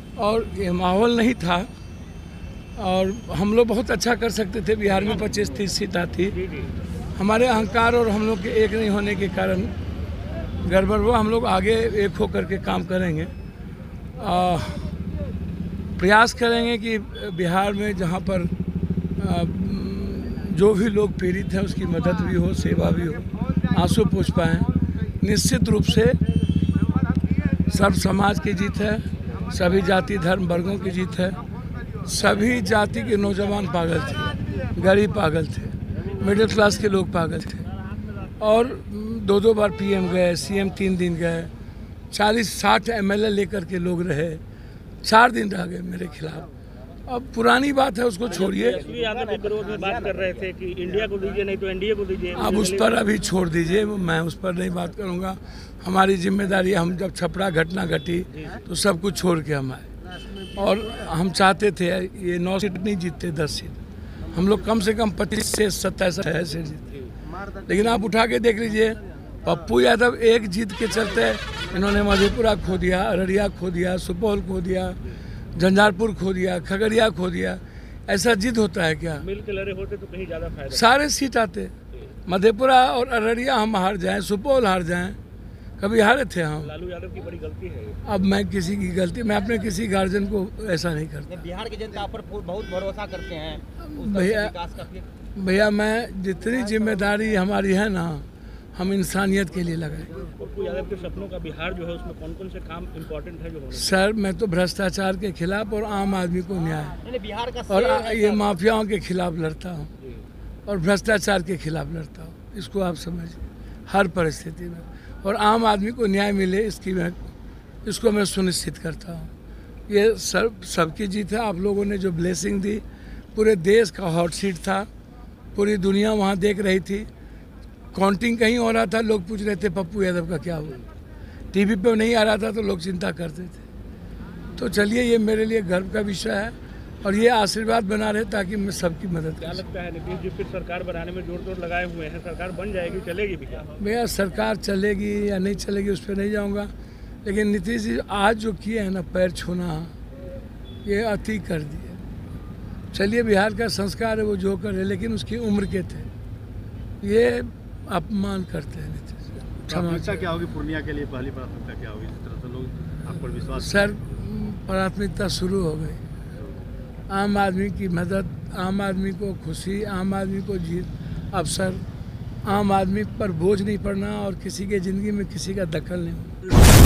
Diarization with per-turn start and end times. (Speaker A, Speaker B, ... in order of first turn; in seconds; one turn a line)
Speaker A: 0.2-1.7
Speaker A: 2.8-6.3
Speaker B: 6.3-6.7
Speaker A: 7.2-9.7
Speaker A: 10.6-13.3
Speaker A: 14.2-14.9
Speaker A: 15.9-18.5
Speaker A: 19.2-26.2
Speaker A: 27.7-31.4
Speaker A: 32.0-37.6
Speaker A: 38.4-41.5
Speaker A: 42.1-44.4
Speaker A: 45.0-46.5
Speaker A: 47.1-48.8
Speaker B: 48.3-53.1
Speaker C: 48.9-50.5
Speaker A: 52.3-63.8
Speaker B: 58.3-58.6
Speaker A: 64.3-75.0
Speaker A: 75.5-79.2
Speaker B: 79.2-80.9
Speaker A: 80.7-81.7
Speaker A: 82.2-85.2
Speaker A: 85.8-86.7
Speaker B: 86.6-88.1
Speaker A: 88.0-91.4
Speaker C: 91.2-95.1
Speaker A: 93.8-94.5
Speaker A: 95.3-100.2
Speaker B: 100.3-104.0
Speaker A: 103.7-107.0
Speaker C: 107.0-108.5
Speaker A: 107.7-109.9
Speaker A: 110.7-117.2
Speaker A: 117.8-119.3
Speaker A: 119.9-122.8
Speaker A: 123.3-124.9
Speaker A: 125.5-127.1
Speaker A: 127.9-130.8
Speaker A: 131.5-133.6
Speaker A: 134.6-139.6
Speaker B: 139.4-143.7
Speaker A: 143.8-146.7
Speaker A: 147.2-149.9
Speaker A: 150.8-152.0
Speaker A: 152.9-156.1
Speaker A: 157.0-160.2
Speaker D: 159.7-163.9
Speaker A: 163.4-166.0
Speaker A: 167.1-171.8
Speaker A: 172.4-176.3